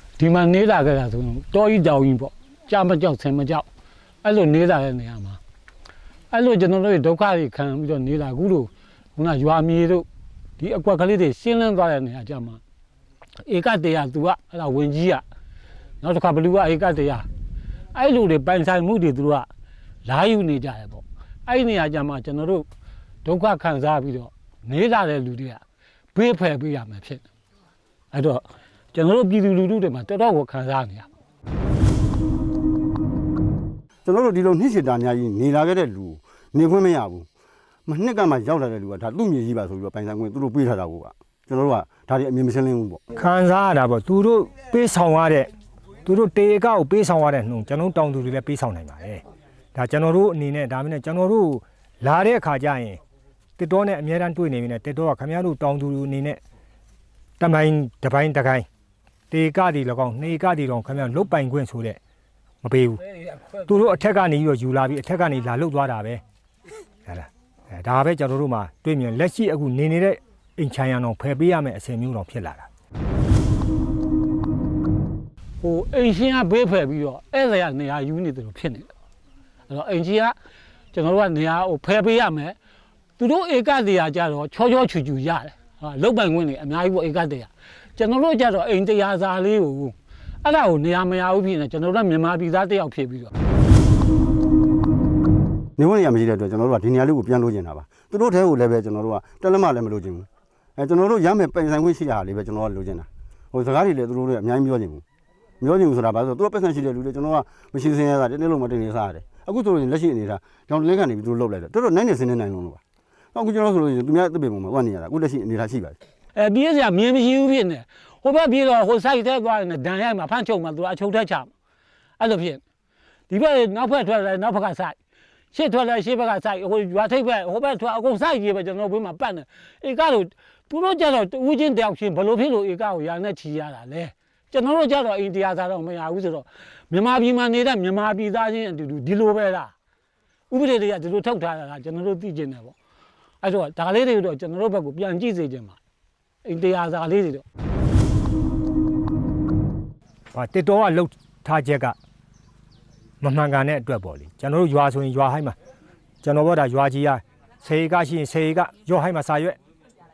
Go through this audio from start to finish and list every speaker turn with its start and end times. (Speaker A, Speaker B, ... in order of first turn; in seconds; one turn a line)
Speaker A: 0.2-3.7
Speaker A: 4.2-5.4
Speaker A: 6.3-10.1
Speaker A: 10.6-12.6
Speaker A: 13.4-15.2
Speaker A: 16.0-17.3
Speaker A: 17.9-19.5
Speaker A: 20.0-22.6
Speaker A: 23.2-25.6
Speaker A: 26.1-27.2
Speaker A: 28.1-31.1
Speaker B: 34.0-37.3
Speaker B: 37.9-43.0
Speaker C: 43.1-45.5
Speaker C: 46.0-53.0
Speaker C: 53.6-56.4
Speaker C: 57.4-58.6
Speaker C: 59.3-62.0
Speaker C: 62.6-63.0
Speaker A: 63.4-63.6
Speaker C: 63.7-66.2
Speaker C: 67.0-72.7
Speaker A: 75.6-78.9
Speaker A: 79.7-80.3
Speaker A: 80.9-82.6
Speaker A: 83.2-93.3
Speaker B: 95.8-105.0
Speaker B: 105.6-112.8
Speaker B: 113.3-116.0
Speaker A: 116.3-121.5
Speaker A: 122.2-122.6
Speaker A: 123.3-125.0
Speaker A: 125.5-139.7
Speaker A: 140.5-142.7
Speaker A: 143.4-145.8
Speaker A: 146.4-147.4
Speaker C: 150.3-151.9
Speaker C: 153.2-155.6
Speaker C: 156.2-159.6